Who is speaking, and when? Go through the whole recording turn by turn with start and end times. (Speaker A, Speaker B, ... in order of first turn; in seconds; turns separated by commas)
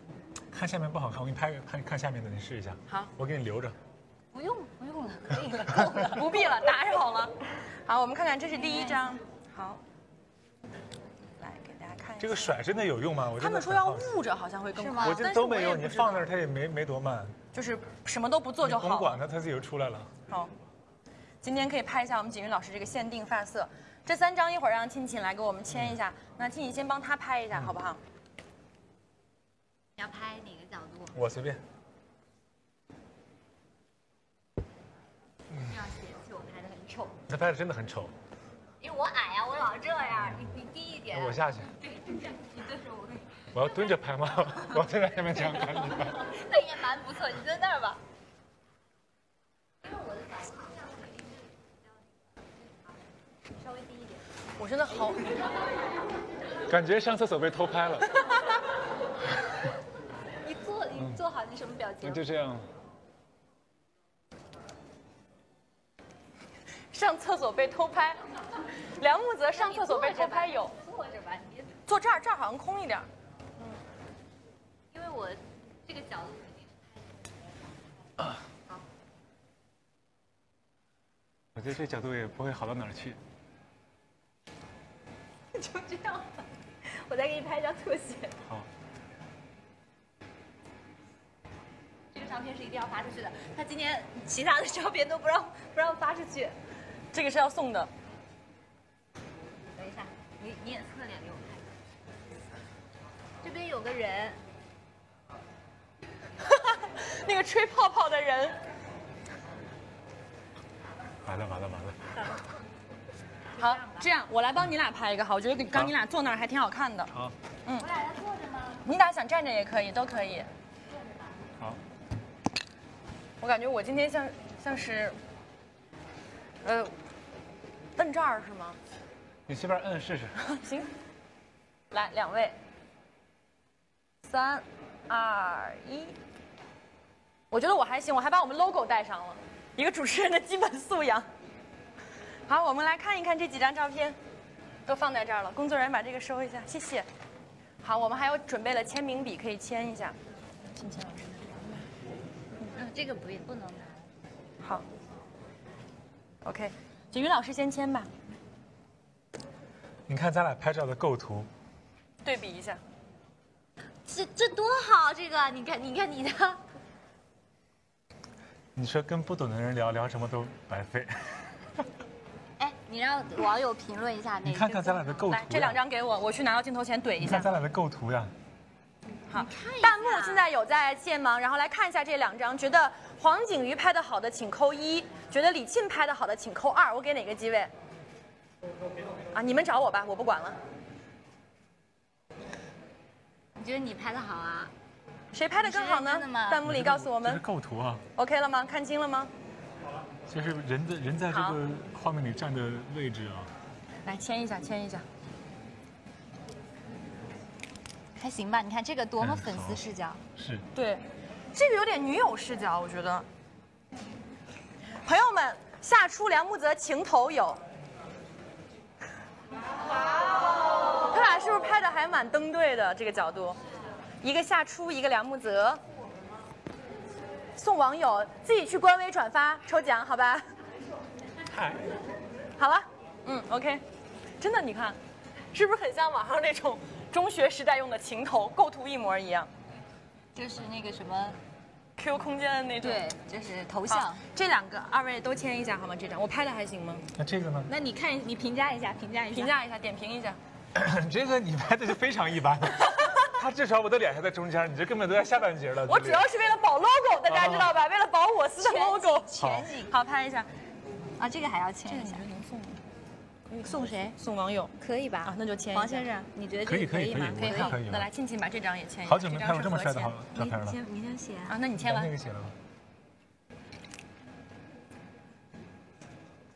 Speaker A: 0.5-3.8, Speaker B: 4.3-6.5, Speaker C: 6.1-7.3, Speaker C: 7.9-9.8, Speaker B: 8.6-9.0, Speaker C: 11.4-12.5, Speaker A: 12.2-14.2, Speaker C: 13.4-16.3, Speaker B: 14.8-15.3, Speaker A: 15.0-17.4, Speaker C: 17.5-19.2, Speaker A: 18.6-20.1, Speaker C: 21.4-28.0, Speaker B: 30.0-31.2, Speaker A: 31.1-31.6, Speaker B: 35.6-37.2, Speaker A: 37.3-38.1, Speaker B: 38.8-44.0, Speaker A: 41.1-41.8, Speaker A: 43.5-46.3, Speaker B: 44.6-48.0, Speaker B: 49.8-51.2, Speaker B: 53.6-54.2, Speaker C: 54.6-55.3, Speaker A: 56.7-58.3, Speaker B: 60.4-62.2, Speaker A: 62.0-62.6, Speaker C: 66.9-68.2, Speaker C: 69.0-70.7, Speaker B: 69.5-71.8, Speaker C: 71.9-73.1, Speaker B: 74.9-77.3, Speaker A: 81.5-83.2, Speaker B: 85.5-88.5, Speaker B: 92.1-96.6, Speaker C: 97.1-97.9, Speaker B: 99.8-101.8, Speaker B: 103.4-104.4, Speaker C: 106.4-108.6, Speaker A: 111.2-112.0, Speaker C: 113.6-117.1, Speaker B: 113.6-114.1, Speaker B: 117.8-118.8, Speaker C: 118.8-120.5, Speaker B: 120.9-121.5, Speaker C: 123.4-125.2, Speaker C: 126.6-126.9, Speaker C: 128.0-128.8, Speaker A: 129.5-130.3, Speaker C: 130.4-130.9, Speaker C: 131.9-132.6, Speaker C: 134.2-136.2, Speaker C: 137.5-141.3, Speaker C: 142.5-144.2, Speaker C: 144.9-147.1, Speaker C: 147.8-150.2, Speaker C: 150.7-151.9, Speaker B: 152.6-154.1, Speaker C: 156.4-158.1, Speaker A: 160.1-161.5, Speaker C: 162.2-162.8, Speaker B: 164.1-166.6, Speaker A: 168.8-171.4, Speaker B: 172.6-175.4, Speaker A: 174.5-175.8, Speaker C: 175.3-177.5, Speaker A: 177.2-178.3, Speaker C: 179.3-187.7, Speaker B: 179.3-180.4, Speaker C: 189.3-190.6, Speaker B: 193.6-194.7, Speaker C: 195.3-197.4, Speaker B: 195.6-196.6, Speaker A: 196.7-198.0, Speaker C: 198.2-199.3, Speaker A: 200.3-203.5, Speaker C: 201.3-201.6, Speaker C: 204.1-205.1, Speaker B: 208.2-210.2, Speaker A: 209.2-209.8, Speaker A: 210.4-210.7, Speaker C: 210.7-213.3, Speaker C: 215.0-217.6, Speaker C: 221.1-223.6, Speaker C: 224.2-225.8, Speaker C: 227.6-230.5, Speaker A: 231.5-231.9, Speaker C: 232.6-233.8, Speaker C: 234.4-235.0, Speaker C: 235.5-239.5, Speaker B: 240.3-241.4, Speaker C: 242.0-243.0, Speaker B: 242.8-244.2, Speaker C: 243.9-247.1, Speaker A: 247.2-247.7, Speaker B: 247.7-249.5, Speaker C: 249.3-250.4, Speaker A: 250.7-256.3, Speaker C: 255.9-260.5, Speaker A: 257.3-257.7, Speaker B: 258.6-259.9, Speaker A: 259.4-259.7, Speaker B: 261.2-262.2, Speaker C: 261.9-262.8, Speaker C: 263.5-266.1, Speaker B: 263.6-264.1, Speaker B: 264.8-267.8, Speaker A: 266.6-268.1, Speaker C: 267.4-270.1, Speaker A: 269.1-270.8, Speaker B: 270.4-271.6, Speaker C: 271.5-272.1, Speaker A: 271.8-272.6